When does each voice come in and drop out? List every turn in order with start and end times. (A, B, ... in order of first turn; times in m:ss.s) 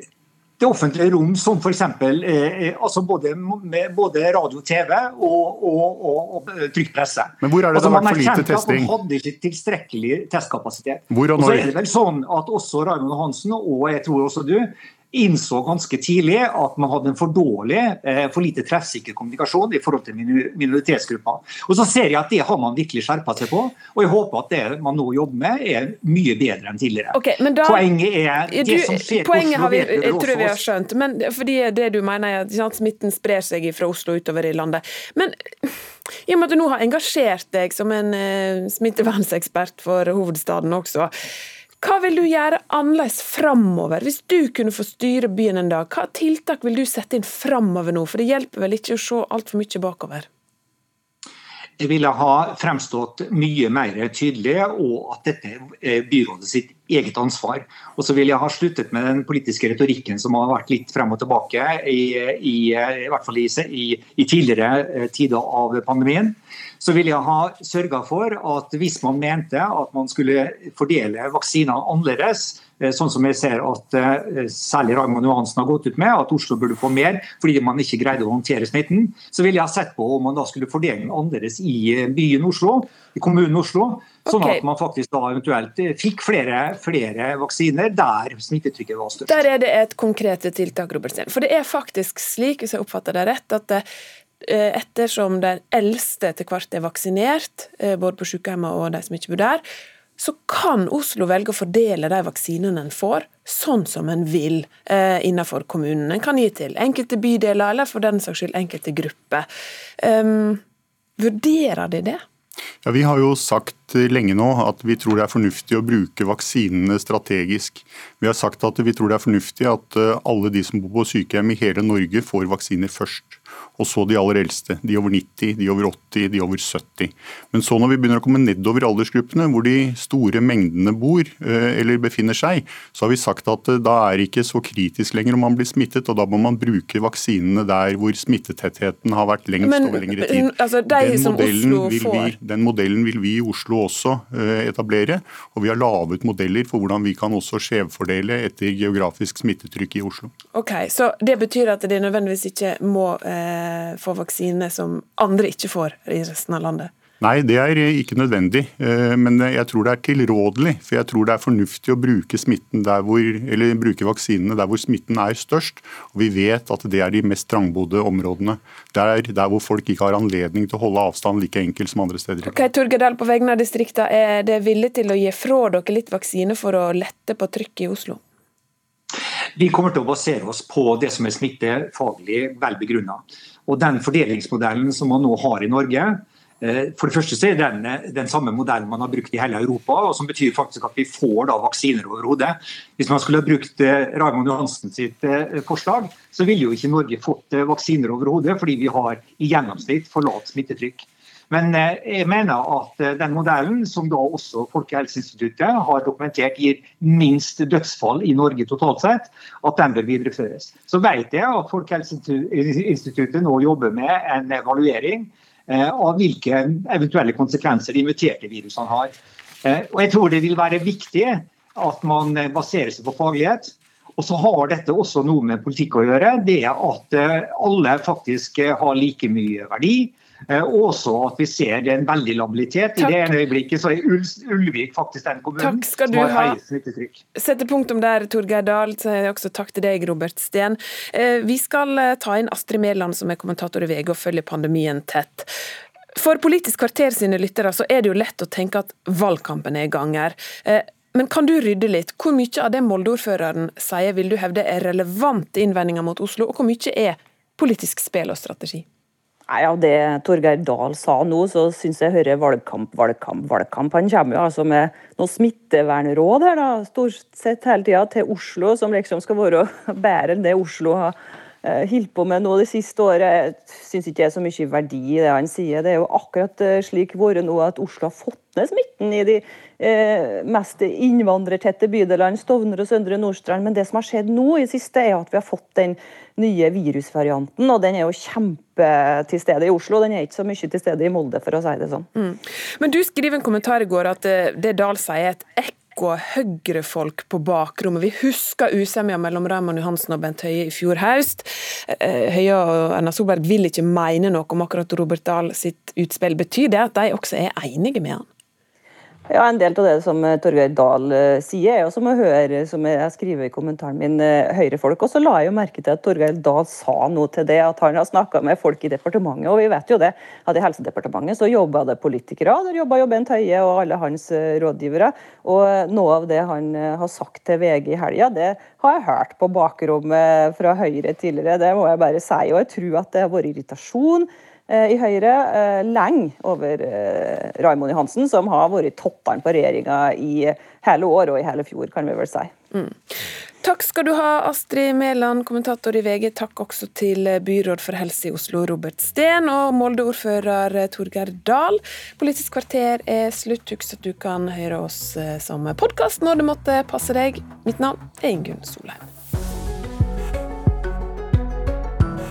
0:00.6-0:30.6 A
0:07.4-0:08.9 B
0:11.1-0:11.7 B
0:27.1-0:27.9 C
0:28.5-0:41.1 C
0:41.8-0:50.3 C
0:51.8-1:29.4 A
1:24.3-1:24.6 C
1:29.3-1:33.8 C
1:34.4-1:39.6 C
1:40.2-1:49.5 C
1:50.0-1:50.6 C
1:51.2-1:52.2 C
1:52.8-2:30.3 B
2:19.6-2:22.3 C
2:30.5-2:36.9 C
2:37.2-2:52.6 B
2:52.4-2:58.2 C
2:59.6-3:57.2 A
3:55.6-3:56.6 C
3:57.3-4:05.5 C
4:06.1-4:18.8 C
4:19.5-4:52.1 D
4:52.2-5:08.3 C
5:09.3-5:42.5 D
5:42.7-5:59.1 C